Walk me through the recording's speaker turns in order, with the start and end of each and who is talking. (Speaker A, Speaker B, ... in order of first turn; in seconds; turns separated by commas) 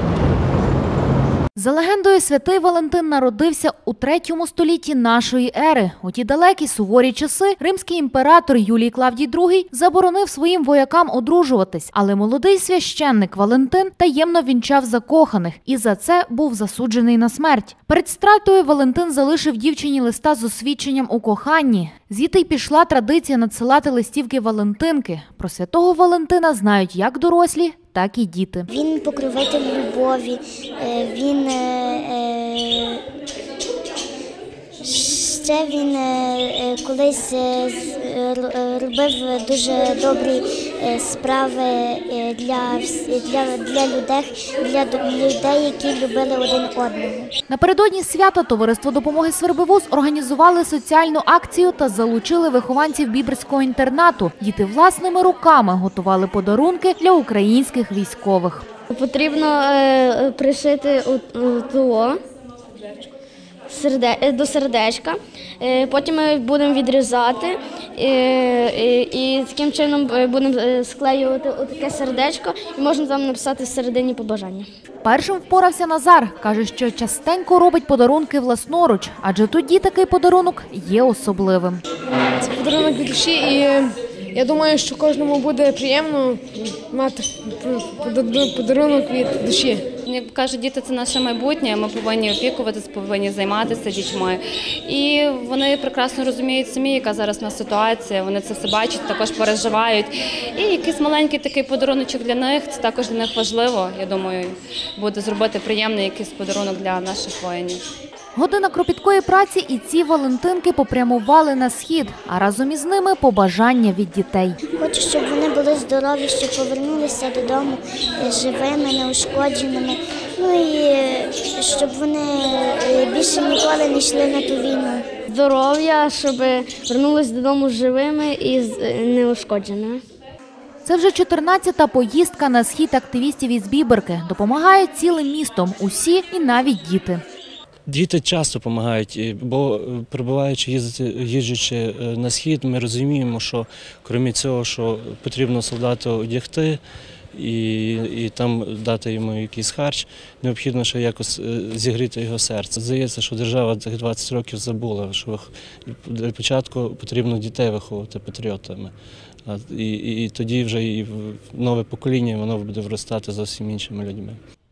Speaker A: 1.6-28.7, Speaker B: 28.7-33.0, Speaker B: 34.8-47.3, Speaker A: 47.5-58.7, Speaker C: 58.9-62.2, Speaker C: 63.7-74.7, Speaker A: 75.0-81.8, Speaker D: 82.4-89.8, Speaker E: 90.1-107.8, Speaker A: 108.4-114.6, Speaker B: 114.8-125.1, Speaker C: 125.3-130.0, Speaker A: 130.8-137.2, Speaker F: 137.9-146.8, Speaker F: 147.3-158.9, Speaker F: 159.5-164.4